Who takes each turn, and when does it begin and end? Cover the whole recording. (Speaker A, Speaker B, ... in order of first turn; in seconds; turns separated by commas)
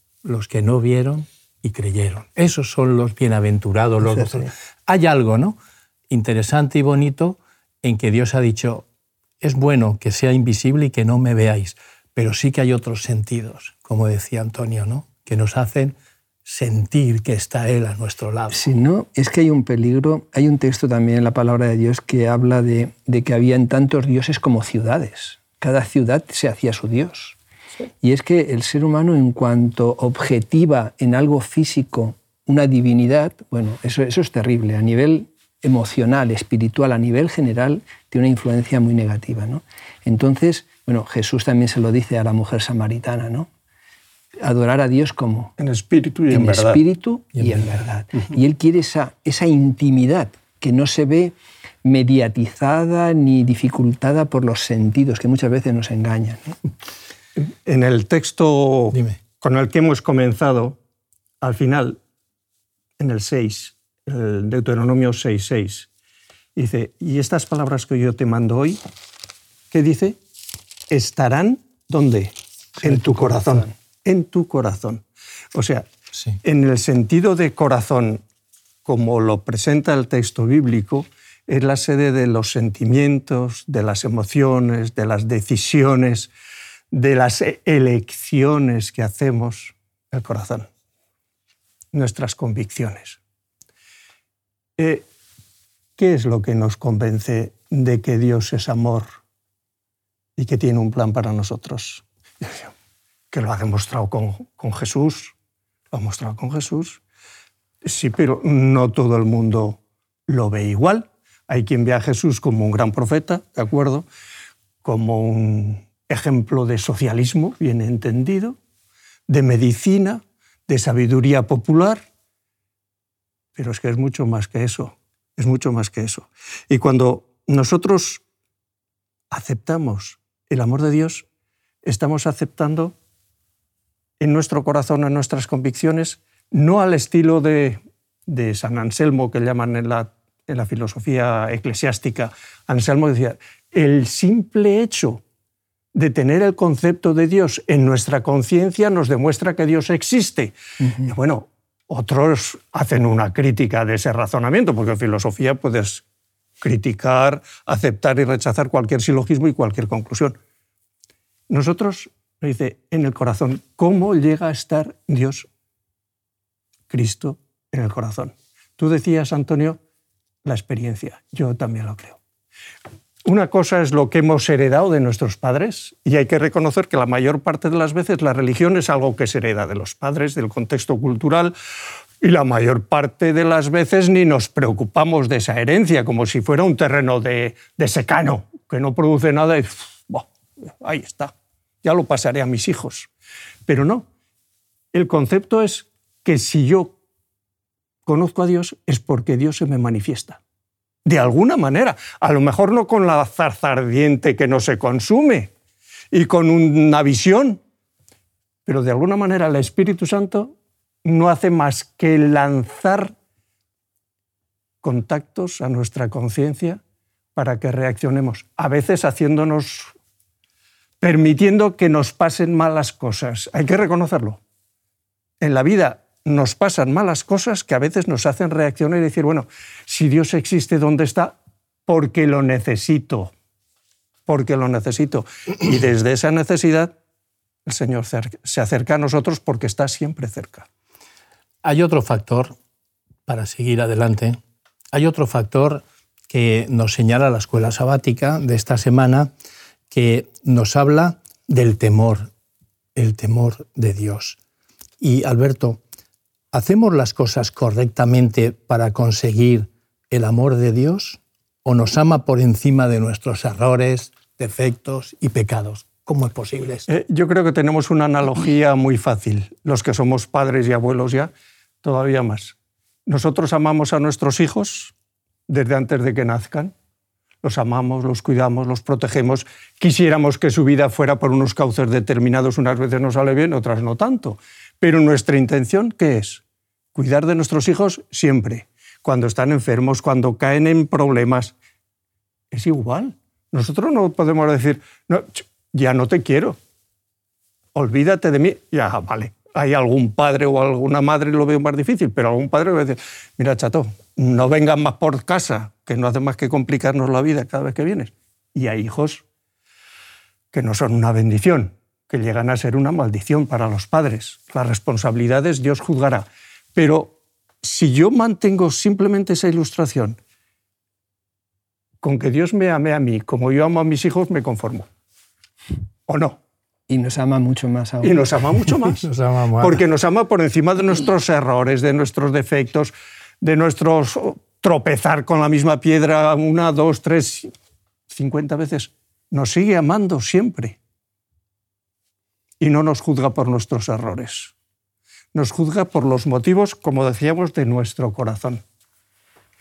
Speaker A: 0.2-5.6, Speaker A: 6.1-8.8, Speaker A: 9.4-18.6, Speaker B: 18.5-27.4, Speaker B: 28.0-43.5, Speaker B: 44.4-45.5, Speaker C: 45.6-46.8, Speaker B: 46.3-56.6, Speaker C: 57.4-60.8, Speaker A: 58.9-59.2, Speaker C: 61.4-62.0, Speaker C: 63.0-65.9, Speaker C: 66.5-68.8, Speaker C: 69.7-70.2, Speaker C: 70.9-75.0, Speaker C: 75.5-75.8, Speaker C: 76.4-78.2, Speaker C: 78.8-86.3, Speaker C: 86.9-90.7, Speaker C: 91.9-93.2, Speaker C: 94.8-95.0, Speaker C: 96.0-99.1, Speaker C: 100.3-102.7, Speaker C: 103.3-105.3, Speaker C: 105.9-107.0, Speaker C: 107.8-114.1, Speaker C: 114.8-118.6, Speaker C: 119.3-122.0, Speaker C: 123.5-128.2, Speaker C: 129.3-131.2, Speaker C: 131.8-132.9, Speaker C: 134.2-145.2, Speaker C: 145.9-156.0, Speaker B: 150.8-151.1, Speaker C: 156.6-160.4, Speaker C: 161.5-165.5, Speaker C: 166.9-169.8, Speaker C: 170.4-172.2, Speaker C: 173.2-181.5, Speaker C: 182.2-190.3, Speaker C: 190.8-193.1, Speaker C: 193.7-194.1, Speaker C: 194.9-196.9, Speaker C: 198.1-200.4, Speaker C: 201.0-205.5, Speaker C: 206.1-207.6, Speaker C: 208.7-210.5, Speaker C: 211.0-213.1, Speaker C: 214.8-216.8, Speaker C: 217.3-219.9, Speaker C: 221.0-224.4, Speaker C: 225.4-231.3, Speaker C: 231.9-233.3, Speaker C: 234.3-236.9, Speaker C: 237.7-240.7, Speaker A: 241.6-242.5, Speaker A: 243.3-244.4, Speaker A: 244.9-249.3, Speaker A: 249.9-252.3, Speaker A: 252.9-254.4, Speaker A: 255.0-255.8, Speaker A: 256.5-266.9, Speaker C: 266.9-271.3, Speaker C: 271.8-272.5, Speaker C: 273.1-274.9, Speaker C: 275.5-276.7, Speaker C: 277.4-286.4, Speaker C: 286.9-291.5, Speaker C: 292.5-296.6, Speaker C: 297.7-309.2, Speaker C: 310.5-320.2, Speaker C: 322.0-324.9, Speaker C: 326.1-326.4, Speaker B: 326.9-328.3, Speaker C: 328.0-329.1, Speaker A: 328.9-329.8, Speaker C: 329.6-337.5, Speaker C: 338.1-340.8, Speaker C: 342.6-344.5, Speaker C: 345.3-348.6